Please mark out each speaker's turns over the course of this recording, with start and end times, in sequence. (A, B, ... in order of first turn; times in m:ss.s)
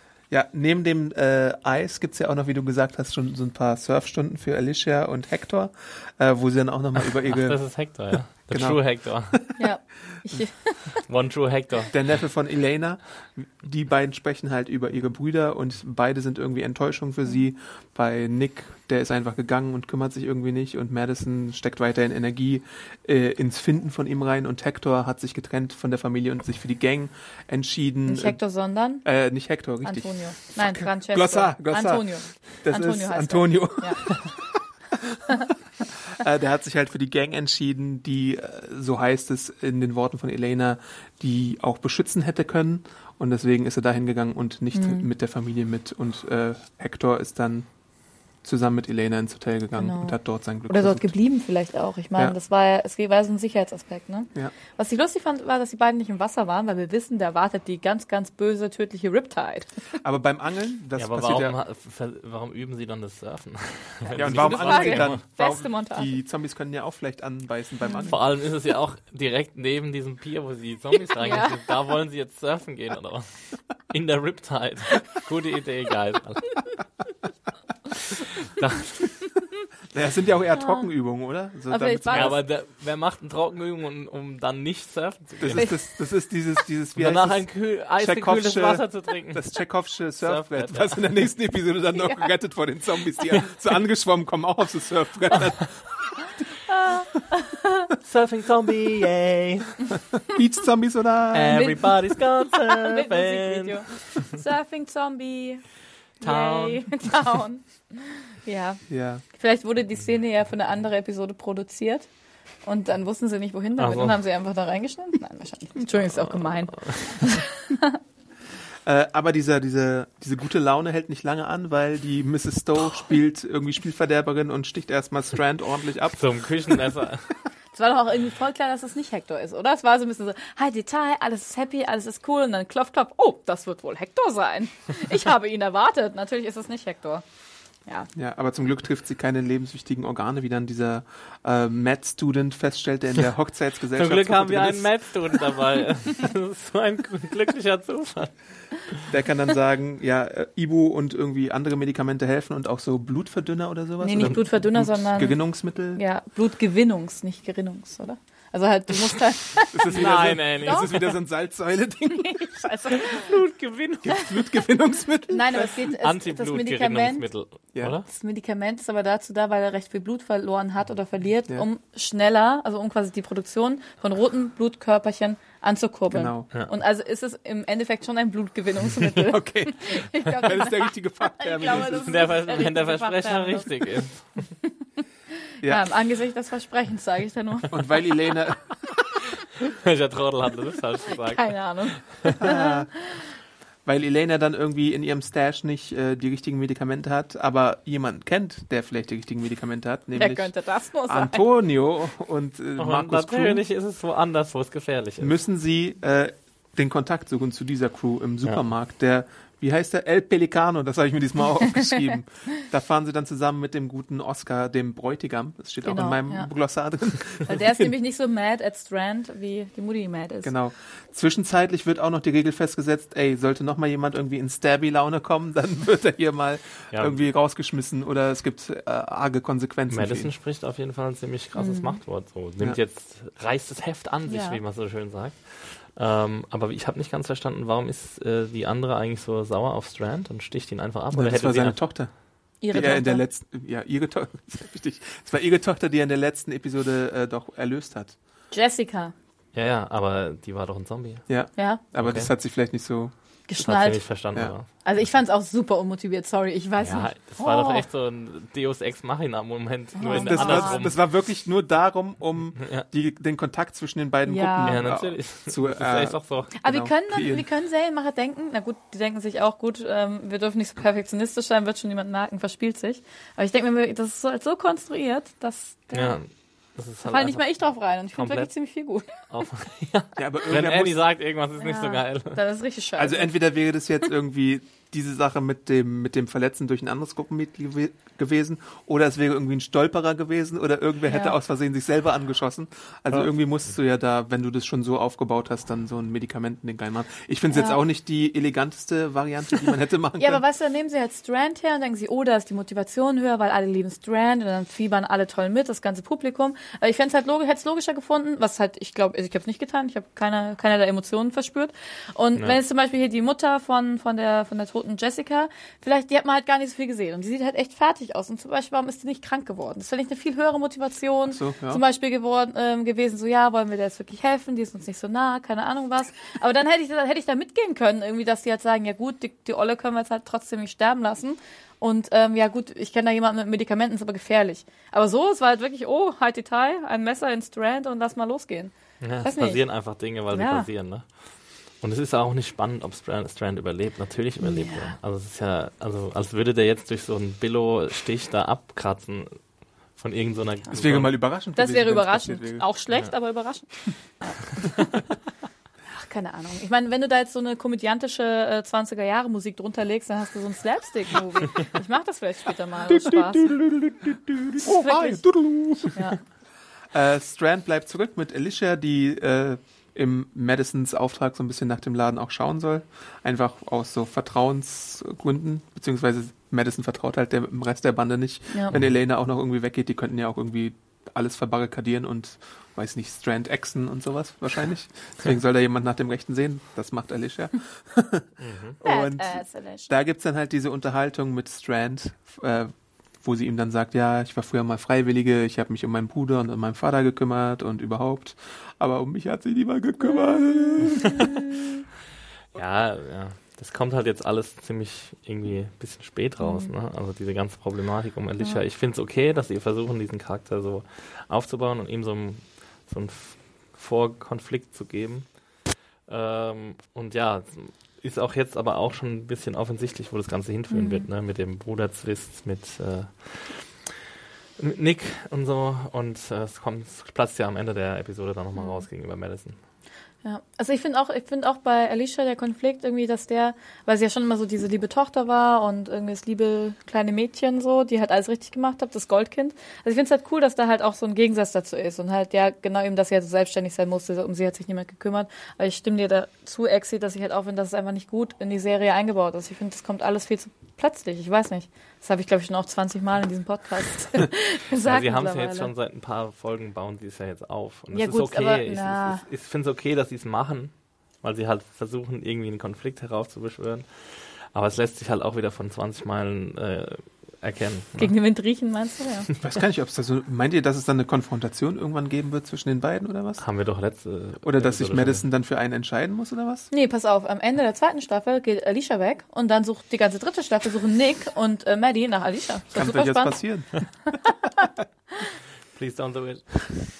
0:00.3-0:07.6 A
0:07.3-0:09.4 B
0:08.5-0:09.4 A
0:09.6-0:11.0 C
0:11.1-0:12.0 B
0:11.9-0:28.4 A
0:28.1-0:29.0 C
0:29.0-0:34.3 A
0:29.8-0:34.0 C
0:35.0-0:35.3 A
0:36.1-0:47.7 A
0:44.7-0:45.0 C
0:48.4-0:51.1 A
0:49.8-0:50.2 C
0:50.7-0:59.7 C
1:00.0-1:01.6 A
1:01.0-1:05.2 B
1:04.0-1:06.1 C
1:04.1-1:08.2 A
1:08.0-1:16.6 B
1:11.1-1:11.7 C
1:18.1-1:19.1 B
1:19.9-1:22.4 A
1:20.6-1:20.9 C
1:21.7-1:22.4 C
1:22.1-1:25.7 B
1:25.4-1:36.1 A
1:27.0-1:29.4 B
1:30.2-1:31.0 B
1:36.7-1:37.9 C
1:38.0-1:39.8 B
1:40.3-1:41.7 A
1:41.3-1:43.8 B
1:41.5-1:41.8 C
1:42.5-1:45.6 C
1:46.2-1:46.9 B
1:46.2-1:48.8 C
1:48.9-1:49.2 A
1:49.3-1:52.1 C
1:52.6-1:58.0 C
1:53.8-1:54.2 B
1:56.7-1:57.3 B
1:58.8-2:06.9 A
2:06.1-2:07.3 B
2:07.7-2:17.2 C
2:18.1-2:25.0 A
2:23.9-2:28.3 B
2:29.1-2:36.0 A
2:34.0-2:40.1 C
2:39.7-2:42.6 A
2:39.9-2:41.1 B
2:40.6-2:40.9 C
2:42.1-2:43.3 C
2:42.9-2:44.2 B
2:44.0-2:45.7 A
2:45.3-2:47.3 C
2:46.0-2:48.0 B
2:48.1-3:03.7 C
2:56.1-2:56.5 A
2:59.0-3:02.3 A
3:01.6-3:04.2 B
3:05.6-3:07.7 C
3:07.7-3:08.6 A
3:09.6-3:11.6 B
3:11.1-3:12.8 C
3:12.1-3:12.4 B
3:12.4-3:12.9 A
3:13.8-3:20.5 A
3:20.1-3:21.4 C
3:21.0-3:23.6 A
3:22.8-3:25.4 B
3:25.2-3:37.9 A
3:35.8-3:36.5 C
3:37.4-3:40.5 C
3:40.4-3:50.3 A
3:46.9-3:47.2 B
3:49.9-4:01.8 B
3:51.6-3:52.0 C
3:54.3-3:54.6 C
4:01.1-4:02.1 A
4:02.6-4:03.2 C
4:02.7-4:08.2 A
4:08.5-4:09.1 C
4:09.5-4:11.3 B
4:11.3-4:13.1 A
4:12.0-4:12.3 B
4:13.5-4:14.0 C
4:13.6-4:14.6 B
4:14.8-4:17.8 C
4:16.8-4:21.0 B
4:20.0-4:20.8 C
4:20.1-4:27.4 A
4:22.6-4:22.8 B
4:24.2-4:24.8 C
4:24.6-4:26.6 B
4:26.6-4:36.2 C
4:35.9-4:37.4 B
4:37.0-4:39.1 C
4:38.2-4:38.5 B
4:39.3-4:42.4 B
4:40.2-4:41.0 A
4:41.6-4:43.4 C
4:43.0-5:00.4 A
4:51.0-4:51.4 C
4:57.5-4:57.8 C
5:00.2-5:38.7 C
5:21.3-5:21.8 A
5:39.0-5:41.0 B
5:39.2-5:39.6 C
5:40.3-5:40.7 C
5:41.8-5:49.4 B
5:44.4-5:44.9 C
5:50.0-5:51.2 B
5:50.7-5:52.6 A
5:51.6-5:55.0 C
5:55.9-6:03.6 C
6:02.9-6:06.1 A
6:04.6-6:05.2 C
6:05.8-6:06.2 C
6:06.9-6:41.2 A
6:28.4-6:28.8 B
6:28.8-6:29.9 C
6:40.1-6:41.4 C
6:42.5-6:55.3 B
6:46.4-6:46.7 C
6:56.1-7:03.9 B
7:00.7-7:01.1 C
7:04.6-7:09.6 B
7:08.6-7:08.8 C
7:10.2-7:35.7 C
7:34.8-7:48.1 B
7:37.9-7:39.2 C
7:48.0-7:49.3 C
7:49.4-7:53.4 A
7:53.4-7:55.2 B
7:54.4-7:56.7 A
7:56.7-8:03.4 C
8:02.7-8:03.8 A
8:05.7-8:06.8 B